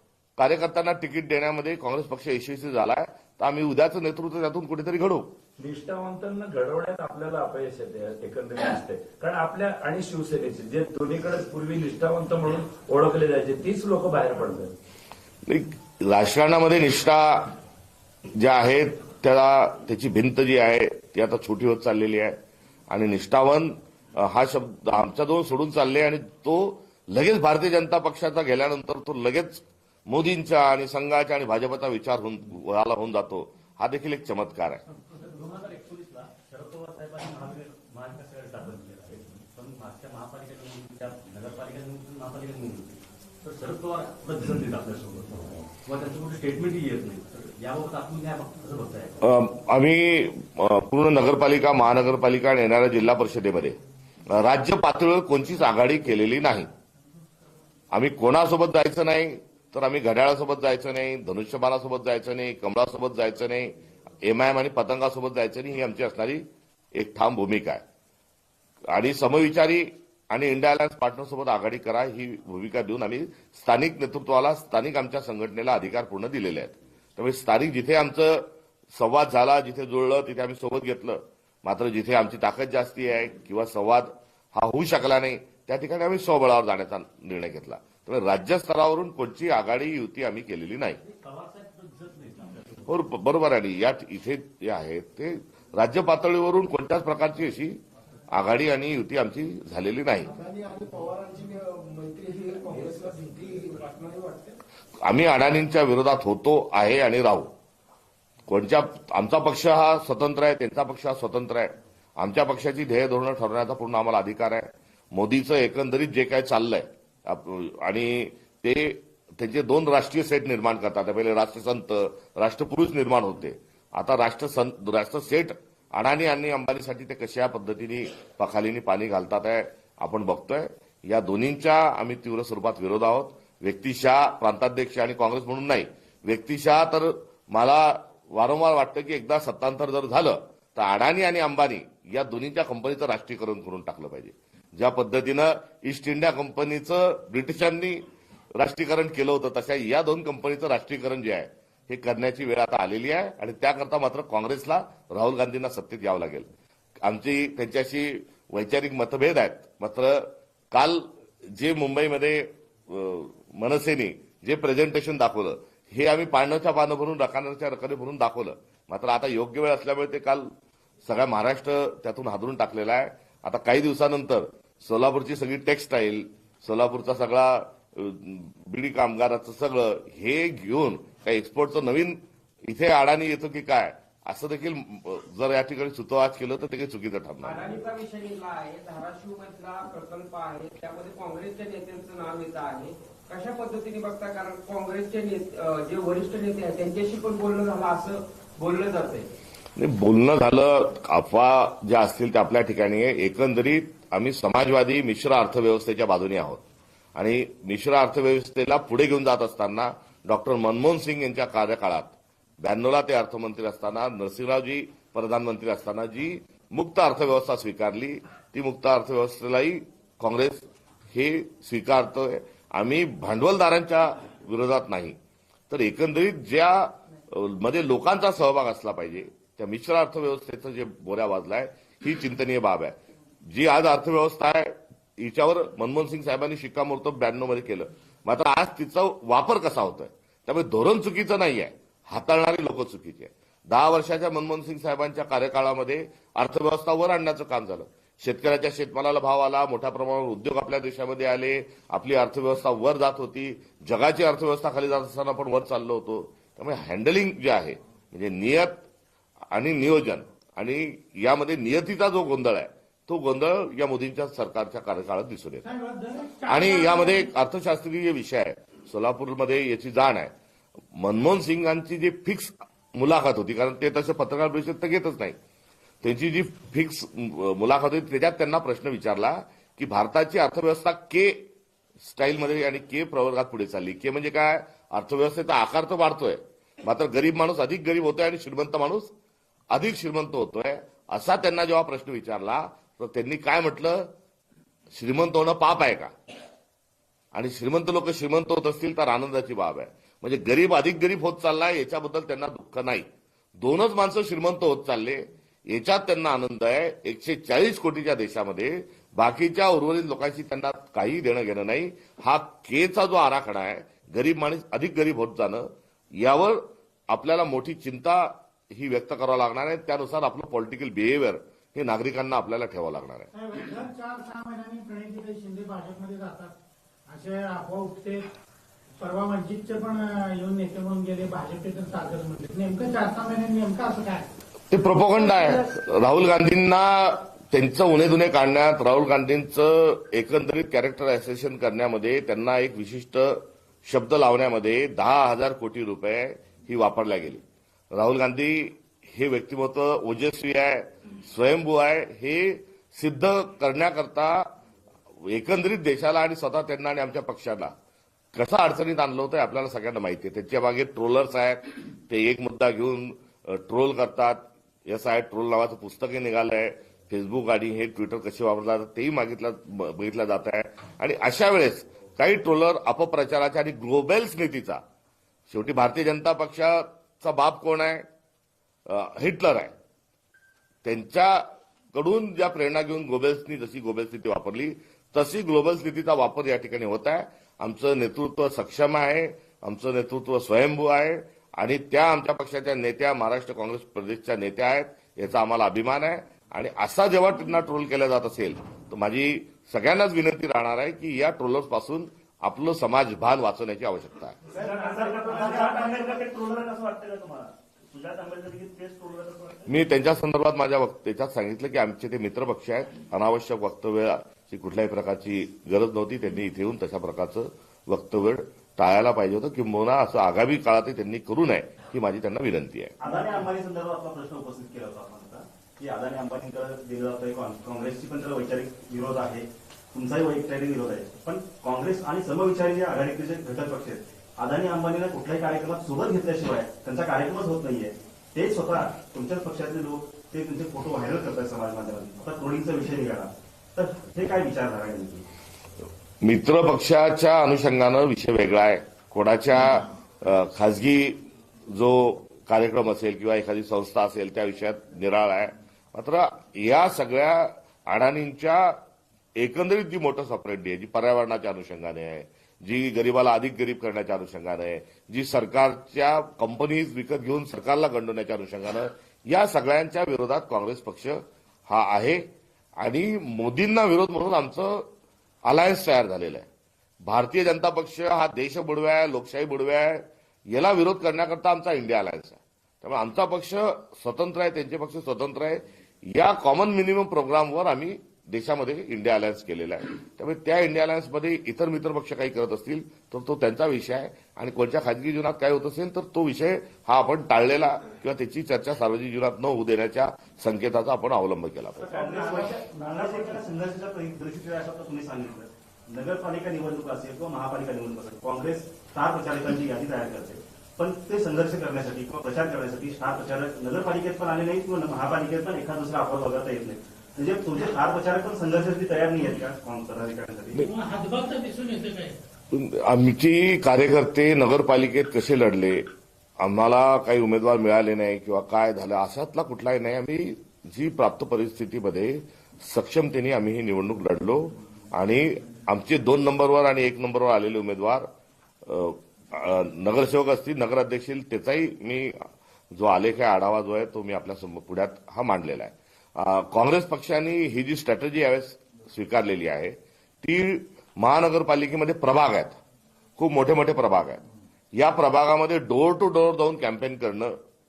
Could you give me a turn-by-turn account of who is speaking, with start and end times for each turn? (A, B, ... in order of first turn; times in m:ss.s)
0:00.4-0:05.3 A
0:05.6-0:14.7 B
0:15.4-0:17.5 A
0:18.4-0:22.4 A
0:22.9-0:34.8 A
0:35.0-0:45.3 C
0:45.8-0:49.2 C
0:49.2-0:53.8 A
0:54.3-0:56.7 A
0:57.9-1:07.8 A
1:08.9-1:31.0 A
1:31.1-1:32.8 C
1:32.9-1:37.8 A
1:38.3-1:40.3 A
1:40.2-1:44.6 D
1:45.0-1:47.5 A
1:48.5-2:36.5 A
2:37.0-2:50.5 A
2:51.0-3:07.6 A
3:07.4-3:19.3 E
3:19.8-3:26.6 A
3:27.1-3:45.2 A
3:45.7-3:53.0 A
3:53.5-4:18.8 A
4:19.5-4:25.6 A
4:25.6-4:27.3 F
4:26.5-4:30.3 A
4:30.9-4:35.4 A
4:36.0-4:41.4 A
4:42.0-4:49.1 A
4:49.7-4:54.1 A
4:54.9-4:56.1 A
4:57.3-5:03.1 A
5:03.6-5:15.7 A
5:16.2-5:23.3 A
5:23.3-5:26.5 F
5:27.1-5:28.2 F
5:29.0-5:34.2 F
5:34.7-5:54.5 A
5:55.2-5:57.7 A
5:58.3-6:14.8 A
6:15.5-6:18.0 A
6:18.8-6:19.7 A
6:20.8-6:44.4 A
6:44.5-6:49.8 C
6:44.6-6:46.0 B
6:49.7-7:02.9 A
7:03.0-7:25.2 C
7:26.2-7:38.8 A
7:39.4-7:54.8 A
7:55.4-7:56.4 A
7:57.0-8:21.9 A
8:21.9-8:40.6 C
8:21.9-8:23.4 B
8:40.6-8:42.2 F
8:42.5-8:45.8 A
8:46.4-8:58.1 A
8:58.6-9:12.6 A
9:13.2-9:17.4 A